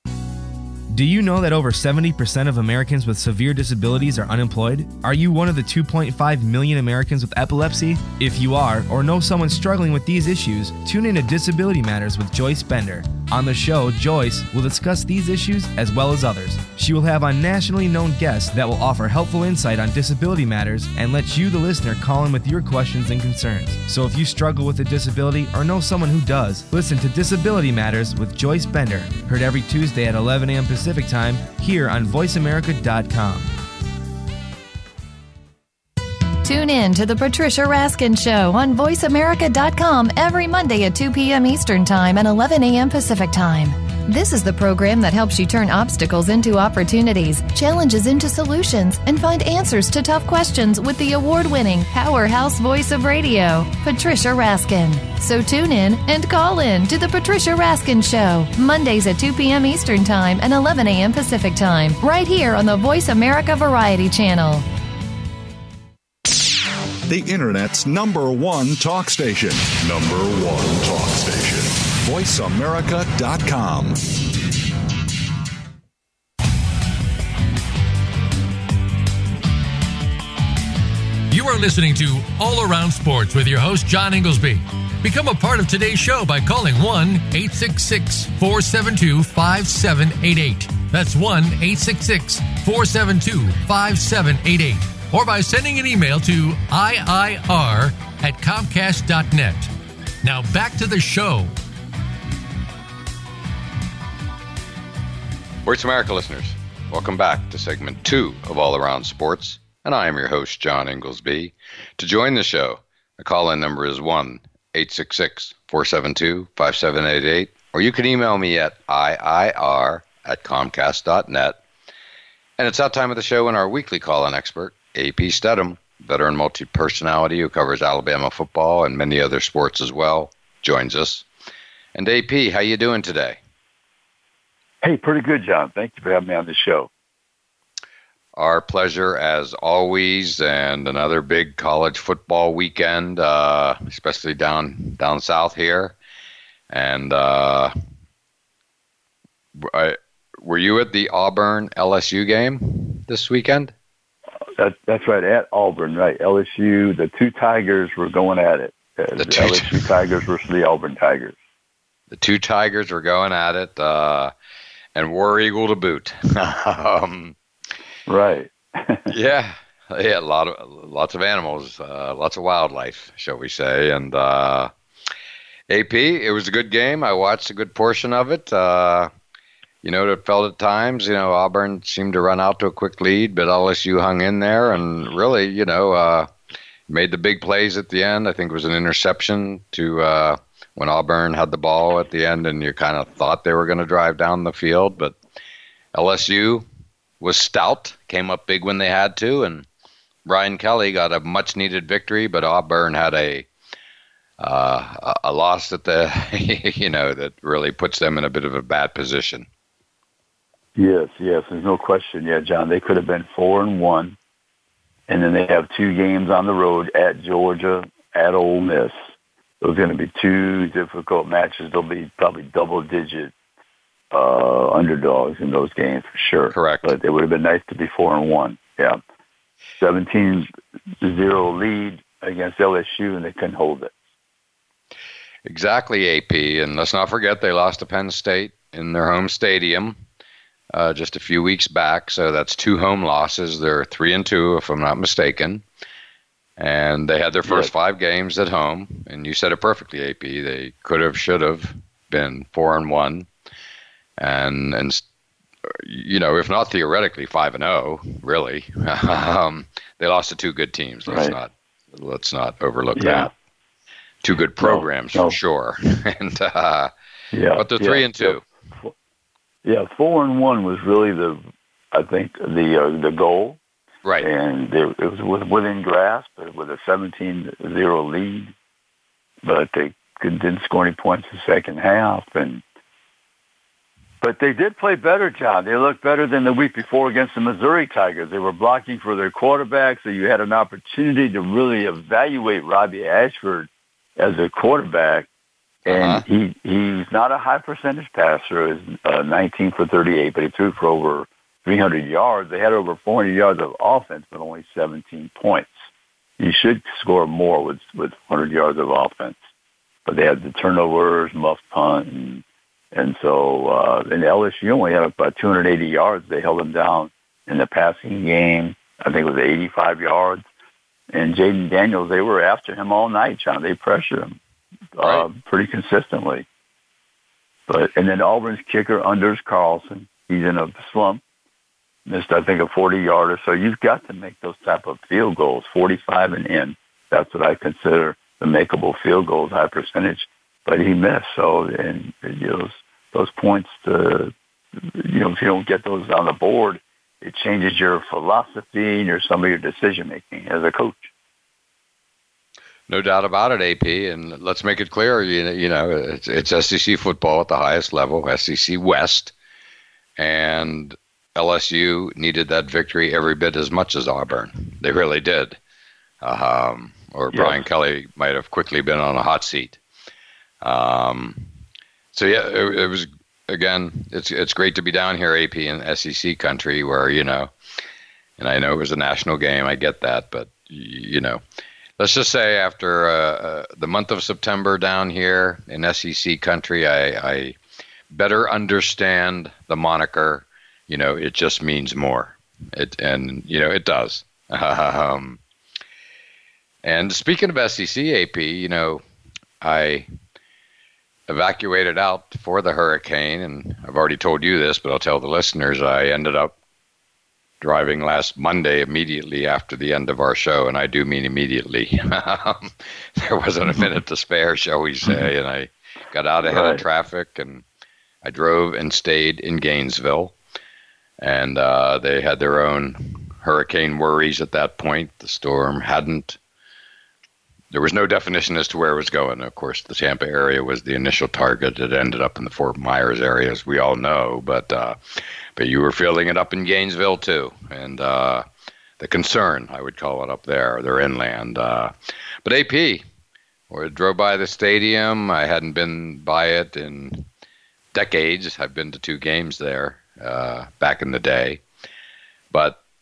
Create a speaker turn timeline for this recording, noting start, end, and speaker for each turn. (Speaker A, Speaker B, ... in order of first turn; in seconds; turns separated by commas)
Speaker A: 0.9-33.5, Speaker B: 36.4-64.7, Speaker C: 67.1-74.0, Speaker D: 81.3-99.7, Speaker D: 100.2-101.5, Speaker E: 105.7-121.6, Speaker E: 122.6-131.3, Speaker E: 131.9-133.4, Speaker F: 134.8-136.9, Speaker E: 138.3-145.9, Speaker E: 146.7-147.7, Speaker E: 149.6-153.7, Speaker F: 154.6-161.4, Speaker E: 159.2-160.0, Speaker E: 162.1-164.3, Speaker E: 164.9-167.4, Speaker F: 168.1-169.1, Speaker E: 169.1-174.7, Speaker E: 175.7-179.1, Speaker E: 179.8-186.3, Speaker E: 186.9-195.2, Speaker E: 195.9-196.7, Speaker E: 197.2-199.7, Speaker E: 200.3-203.5, Speaker E: 204.4-209.5, Speaker F: 210.8-214.2, Speaker F: 215.1-219.0, Speaker F: 219.6-223.3, Speaker F: 224.1-229.0, Speaker E: 226.5-226.9, Speaker F: 229.8-230.5, Speaker F: 231.0-233.9, Speaker E: 235.4-240.0, Speaker E: 240.7-245.6, Speaker E: 246.6-253.3, Speaker E: 254.2-255.0, Speaker E: 255.7-263.3, Speaker F: 261.1-261.4, Speaker F: 263.0-263.3, Speaker E: 264.2-266.9, Speaker F: 264.6-265.4, Speaker F: 267.3-268.9, Speaker E: 267.6-268.4, Speaker F: 269.6-271.4, Speaker F: 271.9-273.6, Speaker F: 274.2-278.5, Speaker F: 279.4-282.6, Speaker F: 284.2-295.3, Speaker E: 295.9-296.2, Speaker F: 295.9-305.7, Speaker F: 306.4-309.4, Speaker F: 310.1-320.4, Speaker F: 321.1-324.4, Speaker F: 325.0-326.5, Speaker E: 325.0-325.3, Speaker F: 327.7-331.2, Speaker F: 332.1-351.1, Speaker E: 352.9-359.3, Speaker E: 360.2-365.6, Speaker E: 366.2-369.8, Speaker F: 367.3-367.6, Speaker E: 370.6-371.4, Speaker E: 372.1-377.5, Speaker E: 378.4-381.4, Speaker E: 382.0-387.6, Speaker E: 388.1-395.4, Speaker E: 396.8-399.0, Speaker E: 399.6-400.1, Speaker E: 401.3-406.6, Speaker E: 407.6-417.6, Speaker F: 416.4-416.8, Speaker E: 418.2-420.4, Speaker E: 421.2-426.4, Speaker E: 427.7-438.4, Speaker E: 439.0-441.9, Speaker E: 442.4-443.1, Speaker E: 443.7-447.3, Speaker E: 447.9-451.6, Speaker E: 452.5-452.8